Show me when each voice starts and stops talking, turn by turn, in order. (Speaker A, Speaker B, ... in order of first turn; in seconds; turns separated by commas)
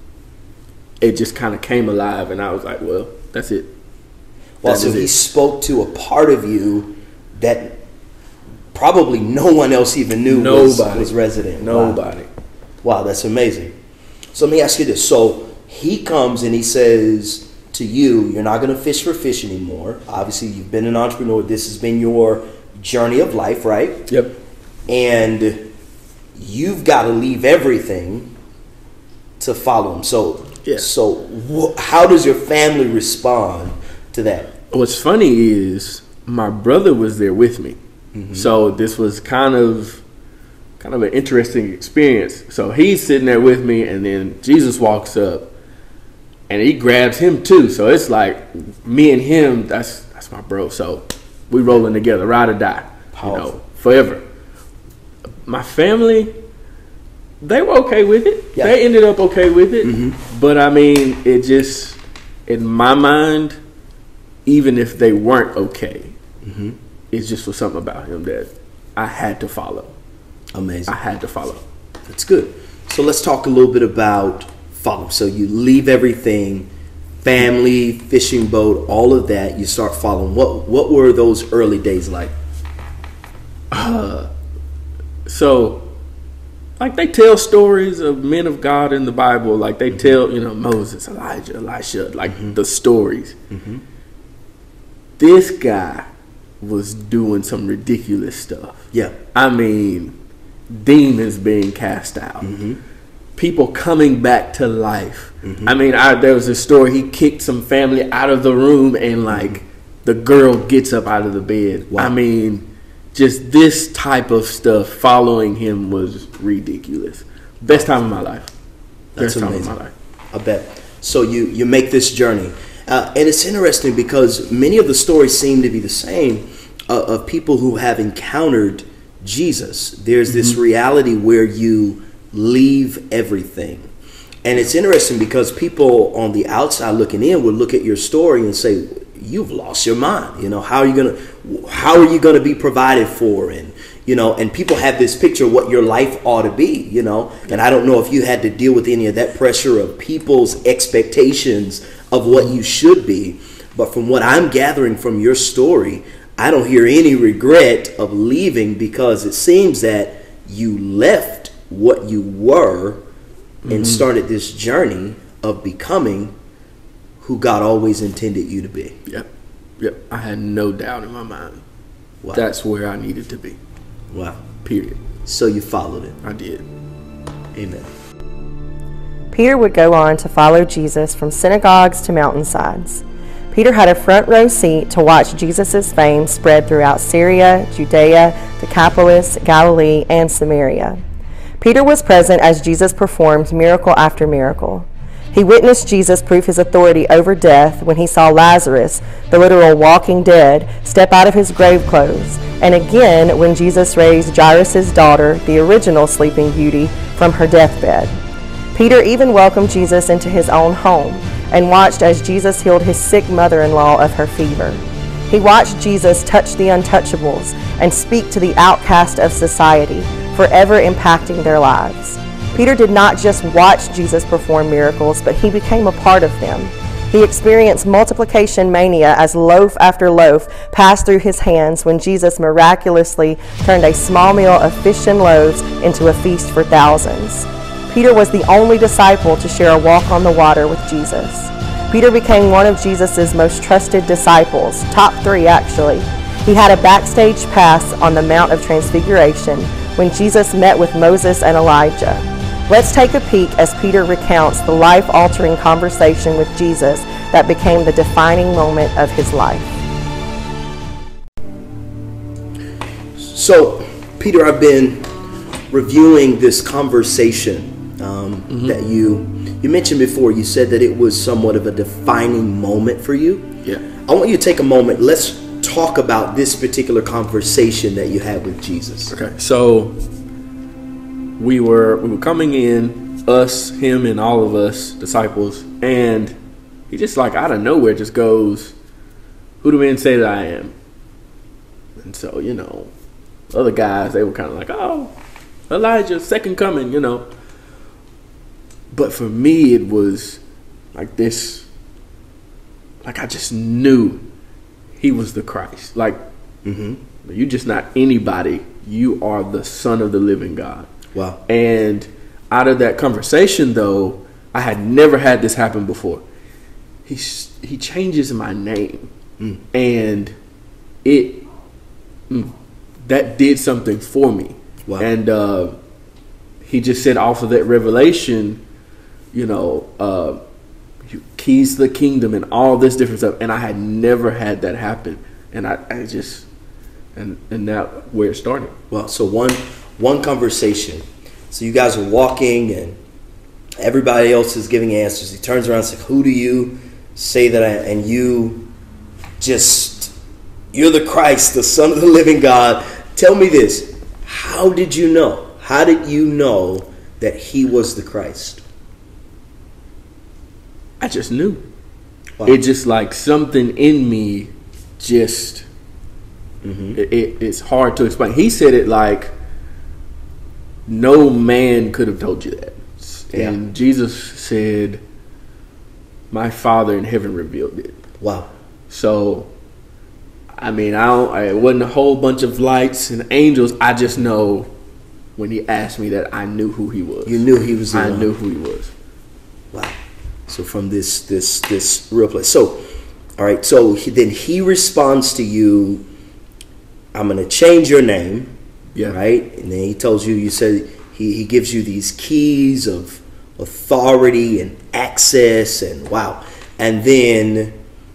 Speaker A: 1.0-3.7, Speaker B: 4.6-7.8, Speaker A: 4.6-5.2, Speaker B: 8.7-12.0, Speaker A: 10.3-12.3, Speaker B: 12.8-13.8, Speaker B: 14.3-24.1, Speaker A: 24.1-24.3, Speaker B: 24.9-25.7, Speaker B: 26.4-28.3, Speaker B: 29.4-34.5, Speaker A: 30.6-30.9, Speaker A: 34.7-37.8, Speaker B: 38.1-38.5, Speaker A: 38.3-40.0, Speaker A: 40.8-45.5, Speaker A: 46.5-54.2, Speaker B: 53.2-53.5, Speaker A: 55.5-56.3, Speaker A: 57.4-63.6, Speaker B: 59.8-60.2, Speaker A: 64.5-66.2, Speaker B: 66.4-66.8, Speaker A: 67.1-69.9, Speaker B: 70.5-70.9, Speaker A: 70.9-71.6, Speaker B: 72.1-76.7, Speaker B: 77.2-82.3, Speaker A: 83.7-84.3, Speaker A: 85.3-85.8, Speaker A: 86.8-93.3, Speaker B: 92.3-92.5, Speaker B: 93.5-93.8, Speaker A: 95.2-96.1, Speaker A: 96.6-100.2, Speaker B: 98.9-99.2, Speaker A: 100.7-102.5, Speaker B: 102.4-102.8, Speaker A: 103.4-118.5, Speaker B: 105.4-105.7, Speaker B: 109.3-109.6, Speaker B: 119.2-119.8, Speaker A: 119.2-119.9, Speaker B: 120.3-133.9, Speaker A: 130.3-130.6, Speaker B: 134.4-163.0, Speaker A: 163.7-164.1, Speaker B: 163.7-166.3, Speaker B: 167.2-169.0, Speaker A: 169.8-171.6, Speaker A: 172.3-173.6, Speaker B: 174.1-174.4, Speaker A: 174.6-175.0, Speaker B: 175.2-176.2, Speaker A: 176.2-176.7, Speaker B: 177.5-177.9, Speaker C: 179.3-191.0, Speaker C: 191.6-208.2, Speaker C: 208.7-259.8, Speaker B: 263.2-265.1, Speaker B: 265.7-273.5, Speaker A: 268.5-268.8, Speaker B: 274.0-279.1, Speaker A: 279.1-280.0, Speaker A: 281.4-286.4, Speaker A: 286.9-288.7, Speaker A: 289.6-290.7, Speaker A: 292.0-292.9, Speaker A: 293.5-295.1, Speaker A: 295.7-297.3, Speaker A: 298.9-300.4, Speaker A: 300.9-301.7, Speaker A: 303.0-304.2, Speaker A: 305.0-306.2, Speaker B: 306.6-307.0, Speaker A: 307.2-310.9, Speaker B: 311.1-311.4, Speaker A: 311.5-316.2, Speaker A: 317.1-319.1, Speaker A: 319.7-320.3, Speaker A: 321.0-321.4, Speaker A: 322.3-322.5, Speaker A: 323.1-325.8, Speaker A: 326.6-328.6, Speaker A: 329.3-330.4, Speaker A: 331.0-336.5, Speaker A: 337.1-338.8, Speaker B: 338.9-343.0, Speaker B: 343.8-348.7, Speaker B: 349.4-350.1, Speaker B: 350.7-358.6, Speaker A: 361.0-361.6, Speaker A: 362.4-365.7, Speaker B: 366.6-367.0, Speaker A: 367.0-369.3, Speaker A: 370.9-375.0, Speaker B: 373.3-373.6, Speaker A: 376.3-378.0, Speaker B: 378.2-378.5, Speaker A: 378.9-379.5, Speaker A: 380.6-384.7, Speaker A: 385.4-388.9, Speaker B: 387.3-388.3, Speaker B: 389.7-390.0, Speaker B: 390.5-392.9, Speaker B: 393.4-396.1, Speaker B: 397.1-398.5, Speaker B: 399.1-407.8